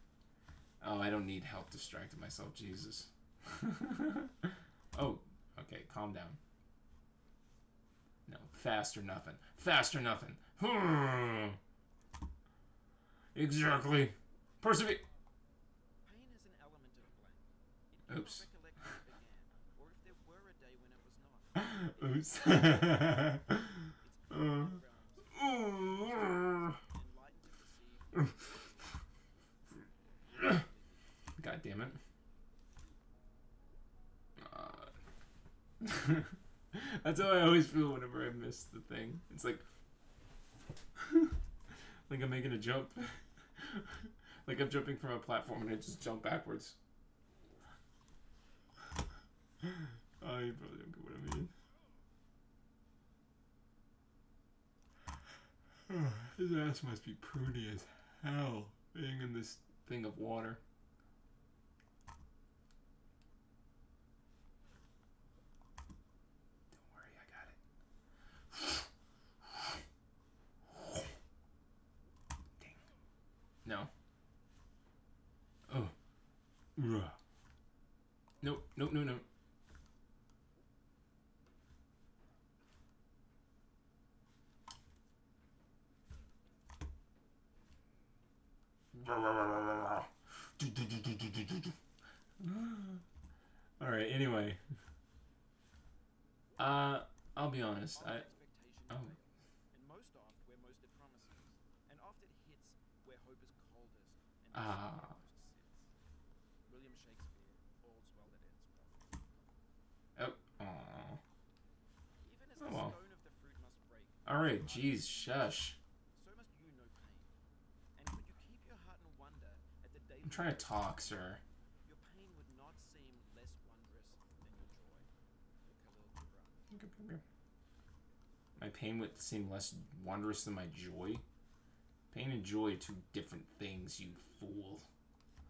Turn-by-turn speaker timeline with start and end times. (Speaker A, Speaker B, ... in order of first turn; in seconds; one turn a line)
Speaker A: 0.8-6.4
Speaker A: 8.3-11.6
Speaker A: 13.3-15.0
Speaker B: 16.0-29.1
Speaker A: 18.1-18.4
Speaker A: 21.6-24.8
Speaker A: 25.3-26.8
Speaker B: 29.7-31.1
Speaker A: 31.4-32.0
Speaker A: 34.4-34.9
Speaker A: 35.8-39.6
Speaker A: 41.0-41.3
Speaker A: 42.1-46.8
Speaker A: 49.6-51.5
Speaker A: 55.9-60.6
Speaker A: 66.7-67.6
Speaker A: 68.5-68.9
Speaker A: 69.4-69.8
Speaker A: 70.7-71.1
Speaker A: 73.6-73.9
Speaker A: 75.7-75.9
Speaker A: 76.8-77.2
Speaker A: 78.4-79.2
Speaker A: 88.9-91.8
Speaker A: 92.4-93.0
Speaker A: 93.8-94.6
Speaker A: 96.6-98.2
Speaker B: 97.9-105.9
Speaker A: 104.5-105.2
Speaker B: 106.7-109.4
Speaker A: 110.2-111.2
Speaker B: 112.2-117.3
Speaker A: 112.6-112.9
Speaker A: 114.2-115.8
Speaker B: 118.0-125.1
Speaker A: 120.2-121.4
Speaker B: 125.7-126.7
Speaker A: 126.7-127.2
Speaker A: 128.6-131.2
Speaker A: 132.1-134.9